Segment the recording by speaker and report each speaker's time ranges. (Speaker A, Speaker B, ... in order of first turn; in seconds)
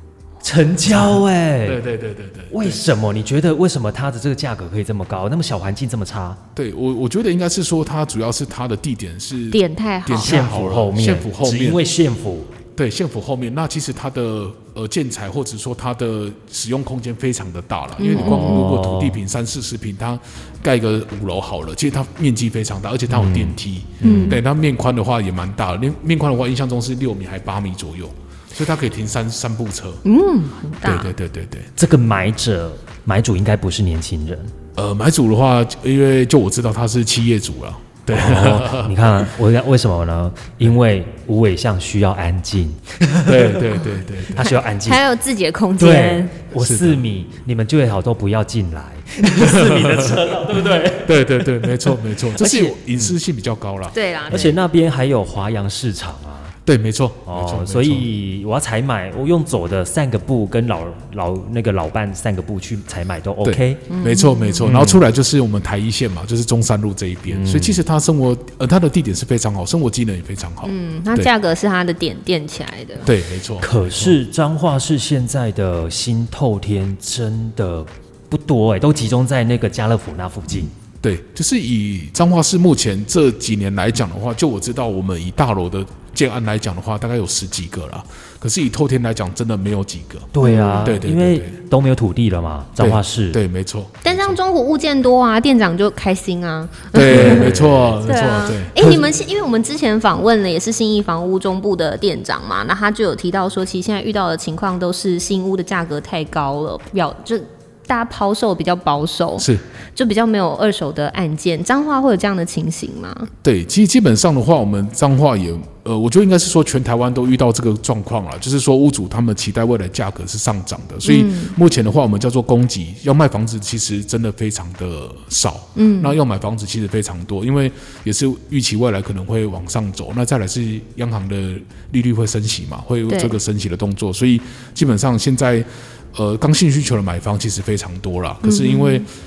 Speaker A: 0.4-1.8, 2.5-6.4, 10.2-12.5, 18.1-19.2, 23.1-24.4, 31.8-34.5, 38.1-43.6, 44.3-45.0, 45.8-53.1, 54.3-56.5, 57.3-63.8, 64.7-65.0, 67.3-67.8, 73.6-80.7, 90.3-93.4, 94.1-94.3, 97.0-98.0, 98.8-99.0
Speaker B: 0.9-2.8, 6.6-11.8, 12.8-30.0, 30.8-31.7, 34.8-39.2, 43.2-44.5, 46.5-47.0, 49.4-50.2, 51.0-54.5, 56.6-58.1, 63.4-71.3, 73.0-74.2, 81.0-90.3, 90.8-91.6, 92.8-94.0, 96.9-98.8, 109.4-109.6, 113.4-139.1
Speaker C: 9.5-10.4, 18.0-18.8, 24.0-24.4, 30.1-31.1, 44.4-46.4, 53.9-54.5, 63.9-64.7, 70.6-73.1, 90.4-91.0, 94.0-113.3, 121.0-121.6, 125.8-126.2, 133.1-133.4, 138.4-139.1